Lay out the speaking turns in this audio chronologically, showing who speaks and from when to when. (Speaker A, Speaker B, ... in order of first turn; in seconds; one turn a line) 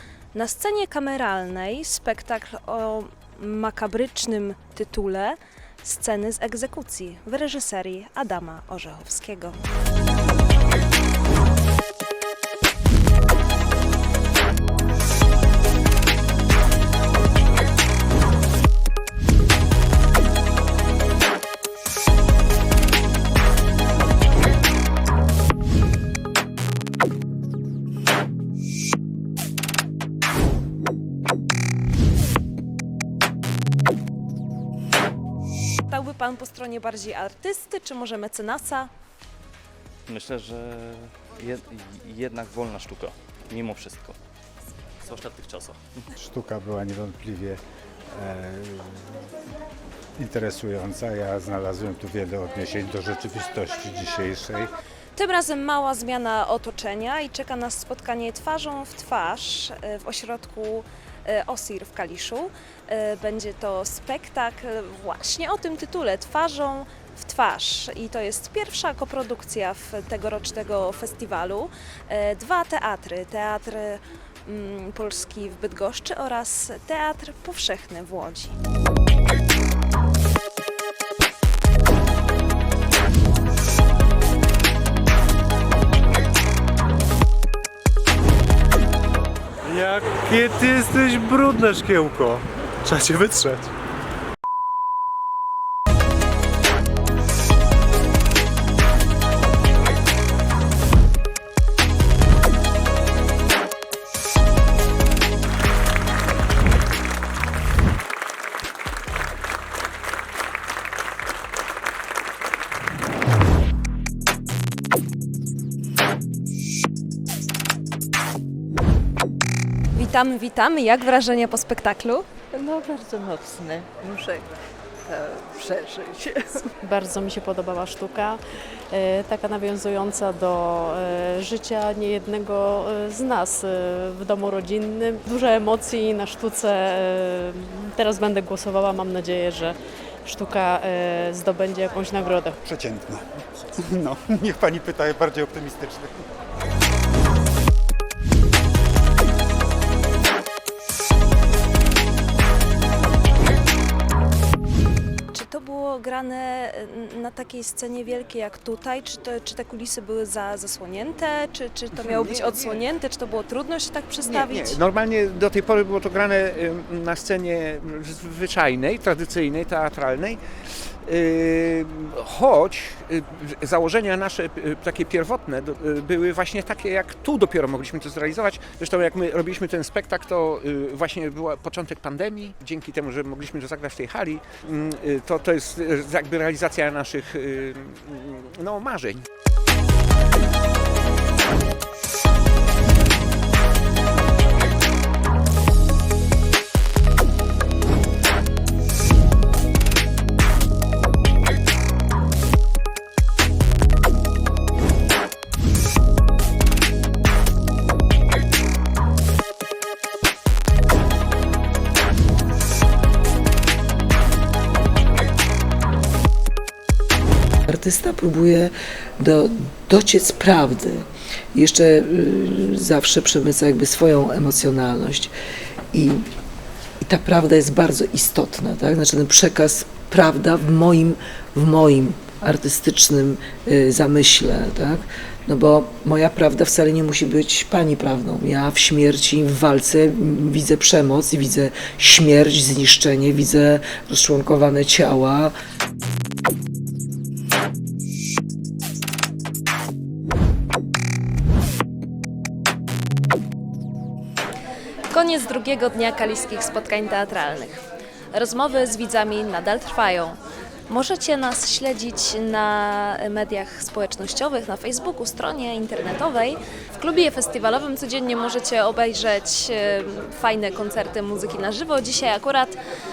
Speaker A: 0.3-9.6
Speaker A: 35.9-38.9
Speaker B: 40.1-44.2
Speaker B: 45.0-45.8
Speaker C: 46.2-47.6
Speaker C: 48.1-49.2
Speaker C: 50.2-54.7
Speaker A: 55.1-78.6
Speaker D: 89.7-93.7
Speaker A: 120.0-122.3
Speaker E: 122.5-124.5
Speaker E: 125.0-126.7
Speaker F: 126.8-128.4
Speaker F: 128.9-142.6
Speaker C: 142.6-143.3
Speaker C: 143.9-146.2
Speaker A: 155.3-164.8
Speaker G: 161.9-162.8
Speaker G: 164.2-170.4
Speaker G: 171.1-189.2
Speaker H: 217.7-225.3
Speaker H: 225.9-226.3
Speaker H: 227.0-245.5
Speaker A: 255.1-257.8
Speaker A: 258.3-260.4
Speaker A: 260.9-272.8